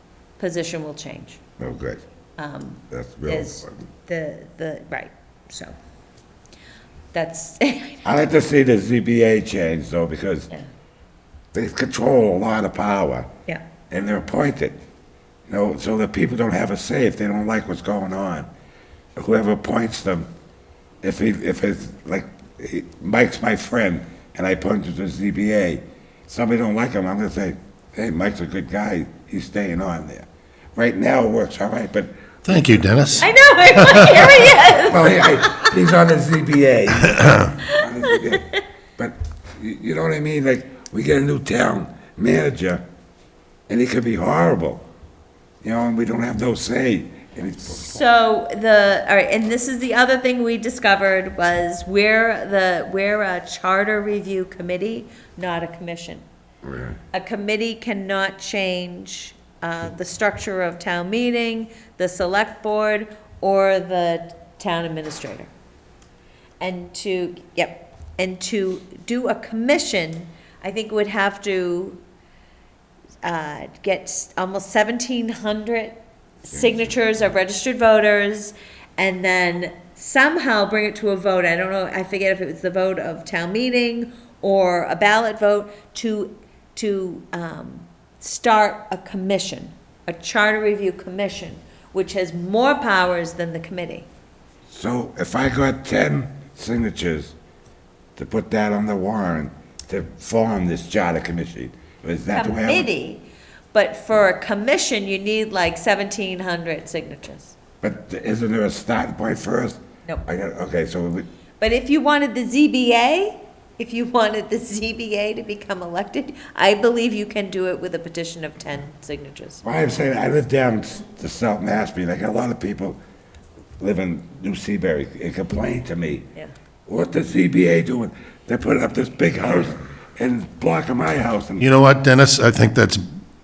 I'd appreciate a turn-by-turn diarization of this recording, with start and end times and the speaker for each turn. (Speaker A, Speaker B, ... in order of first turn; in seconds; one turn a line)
Speaker A: 0.4-1.4
Speaker B: 1.6-2.0
Speaker A: 2.4-5.7
Speaker B: 2.9-3.8
Speaker A: 7.1-8.0
Speaker B: 8.0-10.5
Speaker B: 11.5-13.3
Speaker B: 13.9-14.8
Speaker B: 15.5-18.5
Speaker B: 19.1-20.3
Speaker B: 21.0-32.1
Speaker C: 32.4-34.3
Speaker A: 33.2-35.6
Speaker B: 34.8-42.8
Speaker C: 37.1-37.5
Speaker A: 37.7-38.2
Speaker B: 43.7-44.8
Speaker B: 45.6-48.0
Speaker A: 47.8-56.2
Speaker B: 56.6-57.0
Speaker A: 57.1-65.5
Speaker A: 66.6-72.0
Speaker A: 73.2-94.1
Speaker B: 94.7-97.3
Speaker B: 98.2-102.9
Speaker A: 102.3-107.5
Speaker B: 107.8-111.2
Speaker A: 111.6-119.6
Speaker B: 119.6-123.0
Speaker B: 123.8-126.3
Speaker B: 126.9-131.7
Speaker C: 131.6-133.0